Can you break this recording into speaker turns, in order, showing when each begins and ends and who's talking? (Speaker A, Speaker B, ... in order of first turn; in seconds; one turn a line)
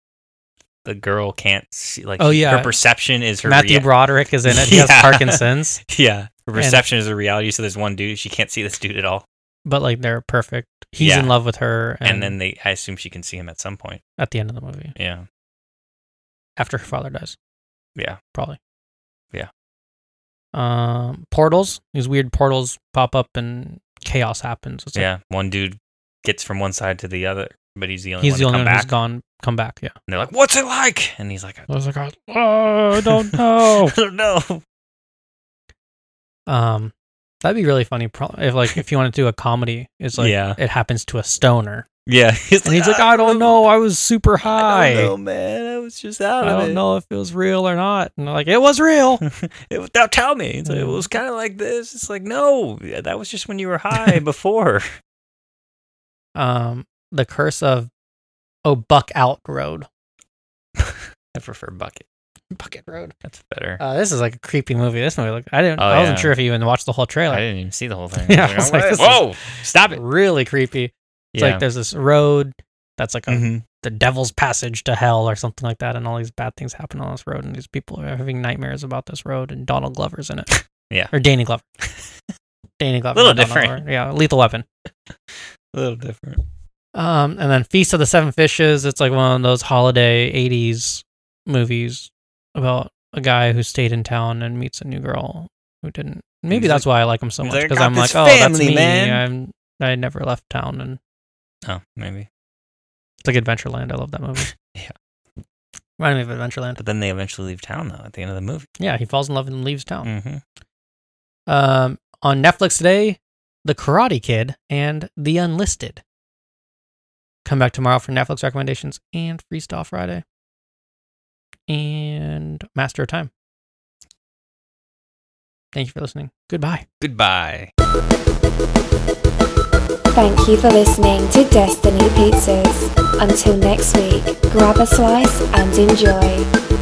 Speaker A: 0.8-3.9
Speaker B: 2.2-2.8
Speaker B: 3.4-5.8
Speaker A: 4.5-9.2
Speaker B: 6.5-6.8
Speaker B: 9.7-12.4
Speaker A: 11.0-11.4
Speaker A: 12.0-14.0
Speaker B: 14.2-14.9
Speaker A: 15.0-15.2
Speaker B: 16.6-17.4
Speaker B: 18.3-18.6
Speaker B: 20.5-25.1
Speaker A: 24.9-29.0
Speaker B: 28.2-29.9
Speaker A: 30.1-31.7
Speaker B: 31.7-34.0
Speaker A: 32.9-34.6
Speaker B: 36.5-41.9
Speaker A: 40.2-40.6
Speaker A: 42.1-43.6
Speaker B: 42.6-45.1
Speaker A: 44.5-46.8
Speaker B: 46.4-49.2
Speaker A: 49.2-54.9
Speaker B: 50.7-51.0
Speaker B: 56.4-57.9
Speaker B: 58.6-59.9
Speaker A: 60.8-62.0
Speaker B: 62.5-63.1
Speaker A: 63.2-63.8
Speaker B: 63.8-67.5
Speaker A: 65.8-66.4
Speaker A: 67.3-70.0
Speaker B: 68.2-80.6
Speaker A: 71.3-71.7
Speaker A: 73.3-73.7
Speaker B: 81.1-81.7
Speaker B: 82.8-84.7
Speaker A: 83.2-83.8
Speaker A: 85.7-86.4
Speaker B: 87.0-101.0
Speaker A: 96.5-96.9
Speaker A: 97.4-99.2
Speaker A: 101.7-102.3
Speaker B: 103.2-104.5
Speaker A: 104.4-104.9
Speaker B: 106.0-106.8
Speaker A: 106.8-108.7
Speaker B: 108.8-110.1
Speaker A: 110.0-110.4
Speaker B: 111.5-116.0
Speaker B: 117.5-120.2
Speaker B: 121.7-123.3
Speaker B: 125.7-126.8
Speaker A: 127.0-127.7
Speaker C: 130.1-136.5